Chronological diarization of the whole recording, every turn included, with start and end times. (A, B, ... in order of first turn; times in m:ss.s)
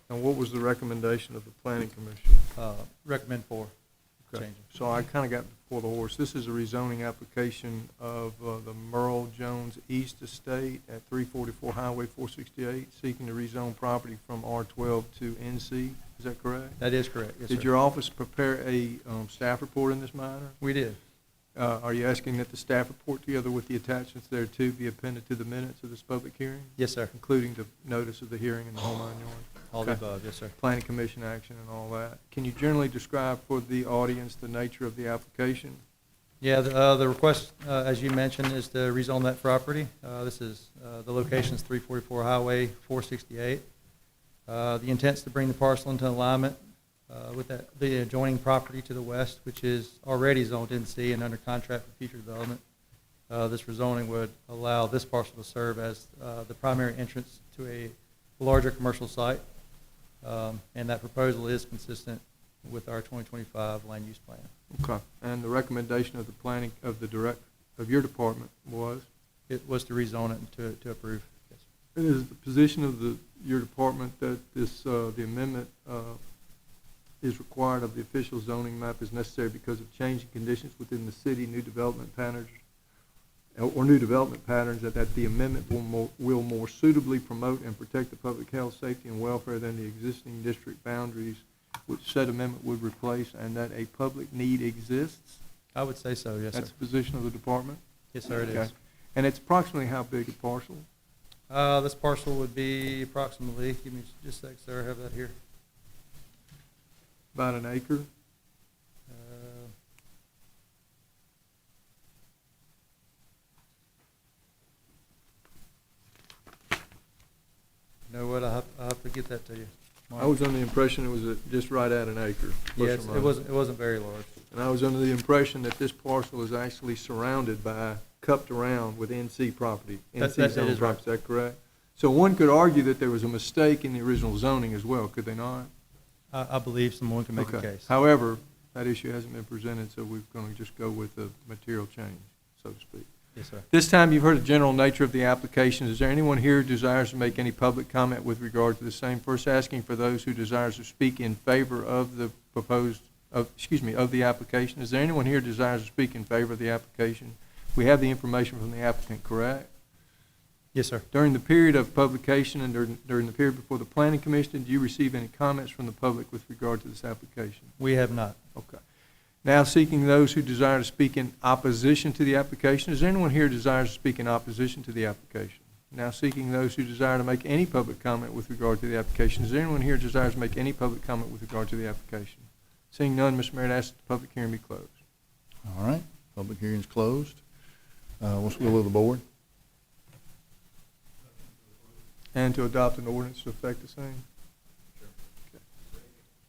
0:00.1-0:02.5 A
0:02.6-0:03.7 B
0:04.3-0:16.8 A
0:04.3-0:04.6 B
0:16.8-0:17.7 B
0:17.5-0:20.6 A
0:20.6-0:21.0 B
0:21.6-0:30.0 A
0:26.8-0:27.1 B
0:29.7-0:30.6 B
0:30.6-0:35.8 A
0:36.4-0:43.6 B
0:44.5-0:46.6 B
0:47.1-0:52.6 B
0:53.3-0:59.4 B
1:00.2-1:04.5 B
1:04.7-1:09.0 A
1:09.5-1:11.6 B
1:12.0-1:16.2 A
1:17.2-1:22.6 A
1:23.6-1:35.4 A
1:35.8-1:36.7 B
1:36.5-1:40.8 A
1:38.1-1:38.7 B
1:41.5-1:45.4 B
1:47.3-1:48.1 A
1:49.1-1:49.7 B
1:58.1-2:00.3 B
2:00.2-2:03.3 A
2:02.8-2:04.4 B
2:04.5-2:15.7 A
2:10.2-2:11.0 B
2:16.3-2:17.9 B
2:17.4-2:23.1 A
2:23.4-2:23.7 B
2:23.7-2:39.7 A
2:40.7-2:41.0 B
2:41.1-2:47.8 A
2:47.8-2:48.4 B
2:48.6-2:48.8 A
2:49.4-3:05.0 A
3:05.6-3:07.4 C
3:08.2-3:09.2 C
3:12.4-3:14.2 A